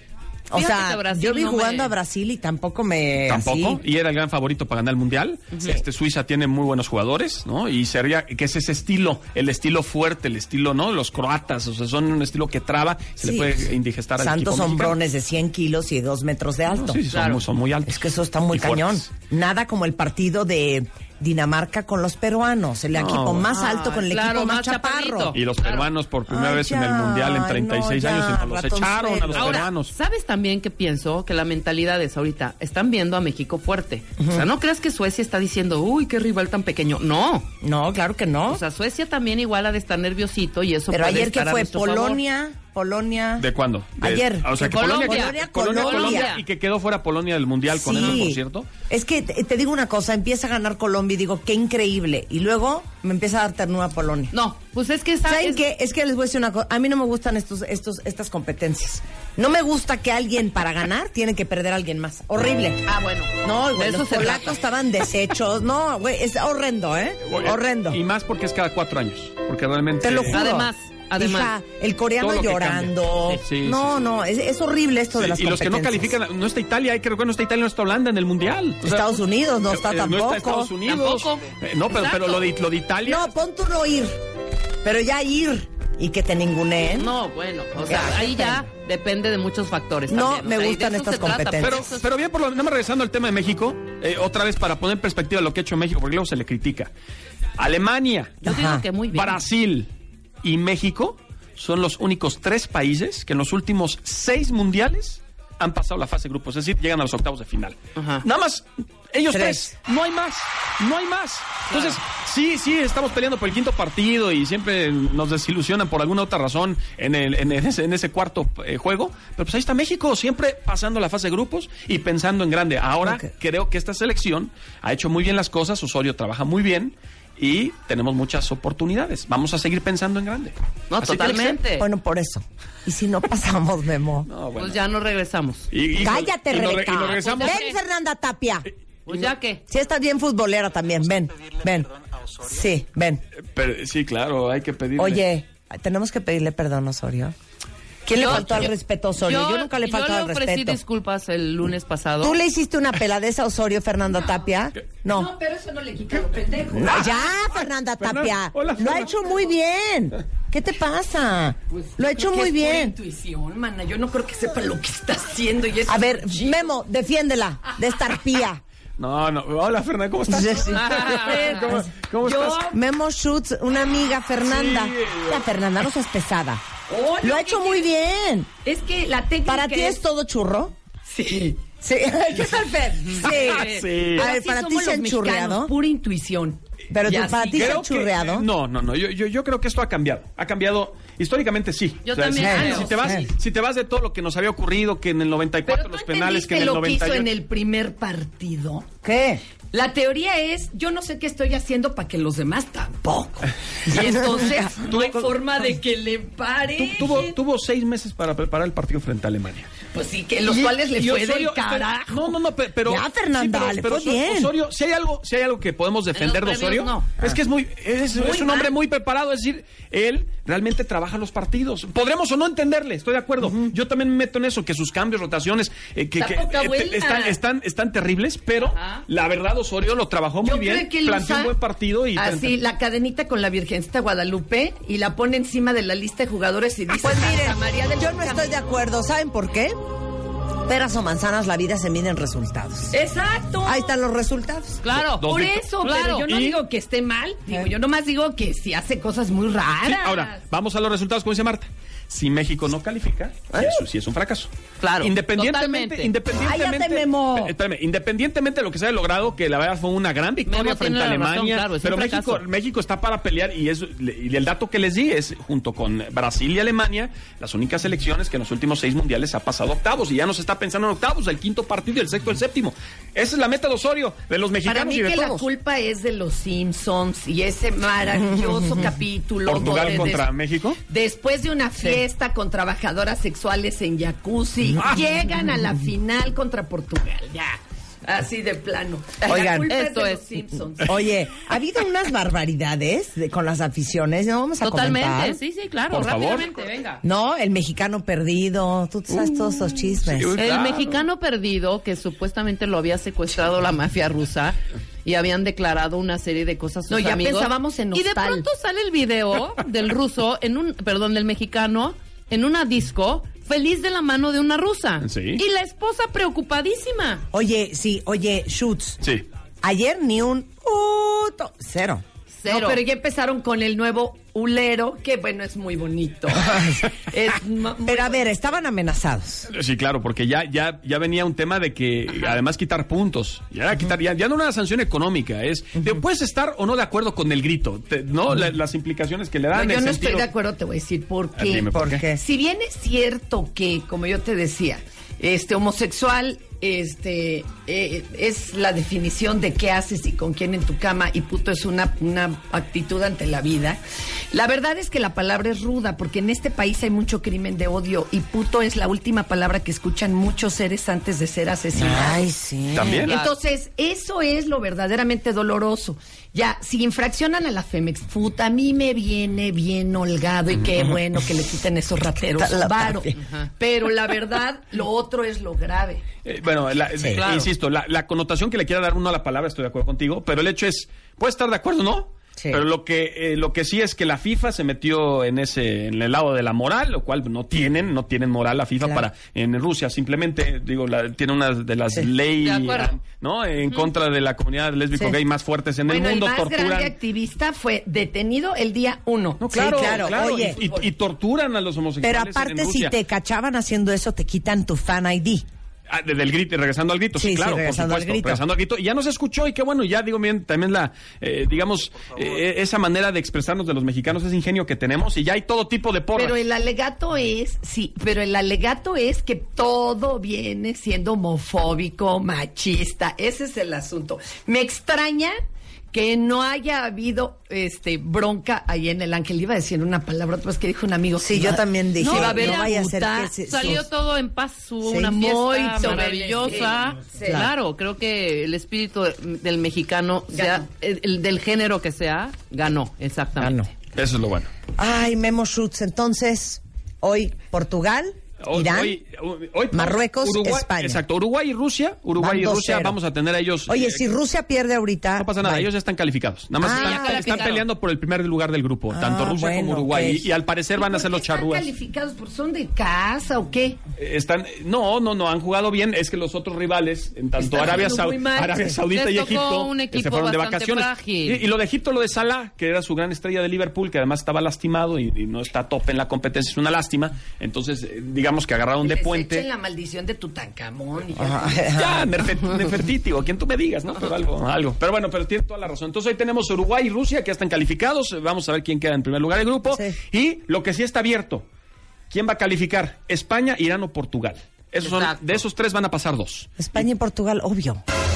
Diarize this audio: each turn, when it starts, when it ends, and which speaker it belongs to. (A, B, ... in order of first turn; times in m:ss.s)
0:00.5-0:03.8 A
0:00.5-0:01.9 B
0:03.2-0:15.0 C
0:13.2-0:13.6 A
0:14.2-0:17.0 A
0:16.7-0:19.1 C
0:17.1-0:17.4 B
0:17.8-0:25.3 A
0:22.9-0:23.5 C
0:23.5-0:25.9 B
0:25.3-0:29.9 C
0:26.3-0:29.6 A
0:29.3-0:37.5 B
0:34.2-0:34.4 A
0:37.6-0:38.6 A
0:38.5-0:42.2 B
0:40.9-0:43.5 A
0:43.4-0:48.7 C
0:44.0-0:46.3 A
0:44.6-0:46.4 B
0:47.7-0:54.3 A
0:54.3-0:55.6 B
0:55.2-1:02.8 A
1:02.8-1:04.6 B
1:03.4-1:08.0 A
1:07.2-1:10.4 C
1:10.0-1:16.2 A
1:10.3-1:11.5 B
1:12.2-1:14.0 C
1:15.1-1:23.4 C
1:18.8-1:20.7 A
1:20.8-1:22.5 B
1:23.0-1:24.2 A
1:24.8-1:27.1 A
1:27.0-1:32.0 B
1:27.8-1:28.7 A
1:30.1-1:31.9 A
1:31.6-1:36.9 C
1:37.6-1:38.4 C
1:38.4-1:39.4 B
1:38.4-1:38.8 A
1:39.1-1:39.9 C
1:40.4-2:11.6 C
1:48.0-1:48.2 B
1:49.3-1:49.7 A
1:51.7-1:52.0 B
2:10.9-2:11.8 B
2:11.7-2:14.3 A
2:14.2-2:14.9 C
2:14.6-2:15.7 B
2:15.7-2:17.6 C
2:16.0-2:18.7 A
2:16.9-2:17.8 B
2:19.1-2:19.6 B
2:19.7-2:21.9 A
2:22.4-2:23.2 A
2:23.5-2:25.2 C
2:25.0-2:27.3 A
2:28.0-2:30.8 A
2:28.2-2:28.7 B
2:28.2-2:28.7 C
2:29.2-2:32.4 B
2:32.2-2:35.3 A
2:35.1-2:37.2 D
2:36.7-2:43.0 A
2:36.8-2:39.1 C
2:41.7-2:46.7 D
2:45.9-2:48.6 A
2:47.7-2:48.2 D
2:49.0-2:52.6 C
2:50.3-2:51.9 A
2:51.2-2:52.8 D
2:52.7-2:56.6 A
2:54.4-2:55.4 C
2:56.9-2:57.9 D
2:57.2-2:58.5 A
2:58.6-3:00.0 D
2:59.4-3:00.7 A
3:01.1-3:01.6 D
3:01.8-3:05.7 A
3:03.2-3:04.3 C
3:03.2-3:03.9 B
3:04.1-3:07.8 D
3:06.9-3:08.5 A
3:07.5-3:17.3 C
3:12.0-3:13.2 B
3:12.3-3:13.3 A
3:15.6-3:18.9 D
3:19.0-3:19.4 A
3:19.7-3:27.3 D
3:23.9-3:25.3 A
3:26.7-3:29.7 C
3:29.9-3:32.3 D
3:30.4-3:52.6 C
3:32.8-3:34.5 A
3:36.1-3:37.1 B
3:38.1-3:38.7 D
3:46.2-3:47.4 D
3:48.6-3:49.0 B
3:50.4-3:51.5 D
3:52.1-3:58.5 D
3:56.9-3:59.7 A
4:00.6-4:03.0 A
4:02.9-4:03.9 D
4:03.6-4:04.8 A
4:04.8-4:06.3 B
4:04.9-4:06.6 C
4:05.2-4:10.4 D
4:09.8-4:35.5 C
4:13.5-4:13.8 A
4:14.8-4:16.1 B
4:16.4-4:17.5 A
4:20.4-4:22.4 B
4:34.6-4:40.3 D
4:38.2-4:38.8 A
4:39.4-4:40.8 C
4:40.8-4:51.1 D
4:49.2-4:49.7 A
4:49.6-4:50.2 B
4:50.8-4:55.4 A
4:54.6-4:57.0 B
4:55.9-4:56.5 C
4:57.0-5:00.4 A
4:59.1-5:01.0 C
5:00.4-5:17.2 B
5:06.9-5:08.4 D
5:15.0-5:15.4 C
5:17.3-5:19.0 A
5:19.6-5:22.0 A
5:22.3-5:22.8 B
5:22.5-5:28.4 D
5:26.3-5:27.1 A
5:27.8-5:29.5 A
5:29.5-5:40.3 C
5:39.5-5:53.8 D
5:41.3-5:42.0 C
5:41.7-5:42.2 A
5:54.3-6:02.2 D
6:01.7-6:03.0 A
6:02.7-6:03.2 C
6:02.8-6:16.0 D
6:03.0-6:03.3 B
6:12.3-6:13.2 A
6:13.2-6:13.5 B
6:16.2-6:37.0 C
6:17.1-6:17.5 B
6:22.4-6:22.6 A
6:32.4-6:33.0 B
6:35.9-6:40.9 D
6:39.4-6:43.0 C
6:39.5-6:40.6 A
6:42.0-6:45.4 A
6:45.9-6:56.4 C
6:47.2-6:48.4 A
6:56.1-7:05.3 D
7:05.9-7:13.8 D
7:11.2-7:13.8 A
7:12.0-7:12.7 B
7:13.5-7:23.6 B
7:14.9-7:17.5 D
7:20.3-7:20.6 D
7:23.4-7:23.7 A
7:23.9-7:24.5 C
7:24.8-7:29.0 A
7:28.4-7:34.0 C
7:29.7-7:31.0 A
7:32.2-7:33.0 A
7:33.7-7:35.7 A
7:35.2-7:41.7 C
7:36.6-7:37.4 A
7:36.6-7:37.6 B
7:38.9-7:40.3 A
7:40.7-7:43.8 D
7:44.0-7:59.4 C
7:47.4-7:48.6 D
7:48.9-7:51.4 B
7:58.8-8:01.7 D
8:01.2-8:02.1 A
8:01.7-8:11.5 C
8:09.6-8:10.0 A
8:12.1-8:16.9 C
8:14.8-8:15.3 B
8:16.6-8:17.8 A